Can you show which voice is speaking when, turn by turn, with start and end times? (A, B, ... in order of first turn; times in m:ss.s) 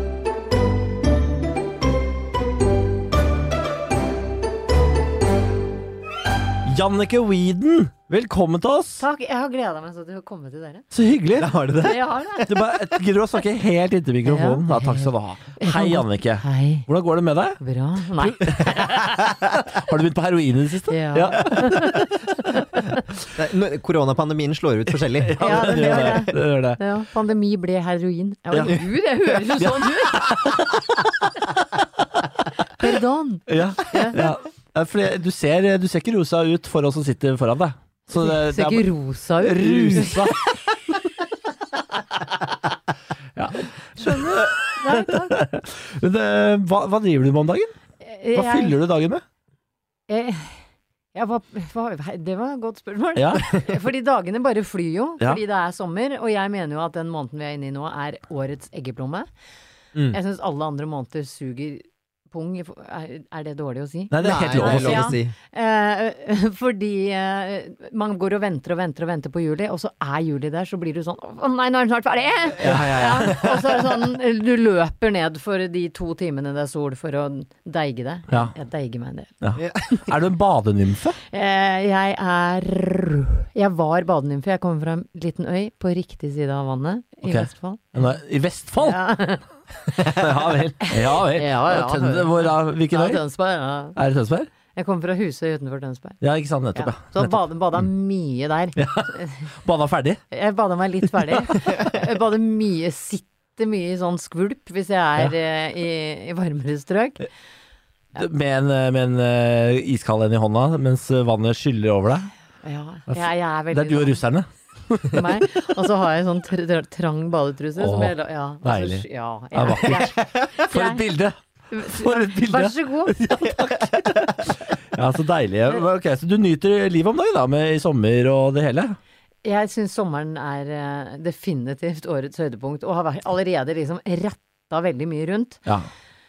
0:06.6-0:09.0 A
0:09.0-0:10.9 B
0:10.9-0:11.9 A
0:11.4-0:12.5 C
0:11.8-0:12.5 B
0:12.4-0:17.6 A
0:14.2-0:16.9 B
0:17.6-0:18.8 B
0:18.2-0:22.1 A
0:20.9-0:23.0 B
0:23.3-0:26.2 C
0:25.1-0:26.8 A
0:25.4-0:30.6 B
0:28.5-0:28.8 A
0:29.6-0:31.1 A
0:32.8-0:34.2 B
0:33.5-0:40.5 A
0:38.1-0:40.3 B
0:43.4-0:47.7 A
0:44.0-0:45.4 B
0:48.0-0:48.8 B
0:48.4-0:49.2 A
0:50.1-0:50.6 B
0:51.1-0:59.3 B
0:53.2-0:53.5 A
1:00.1-1:19.3 B
1:04.1-1:05.2 A
1:04.2-1:05.3 C
1:12.6-1:13.5 C
1:12.6-1:13.3 A
1:19.4-1:21.2 A
1:19.6-1:20.0 C
1:21.3-1:28.1 B
1:27.3-1:29.0 A
1:28.8-1:34.0 B
1:29.9-1:33.2 A
1:34.0-1:34.5 A
1:34.7-1:36.2 B
1:36.2-1:37.3 A
1:36.7-1:39.5 B
1:38.8-1:40.2 A
1:40.3-1:47.3 B
1:41.3-1:41.7 A
1:48.2-1:52.3 A
1:52.6-1:54.2 B
1:53.1-1:55.4 A
1:55.1-2:01.1 B
1:57.8-2:09.0 A
2:00.2-2:00.5 C
2:01.7-2:03.2 B
2:09.4-2:15.6 B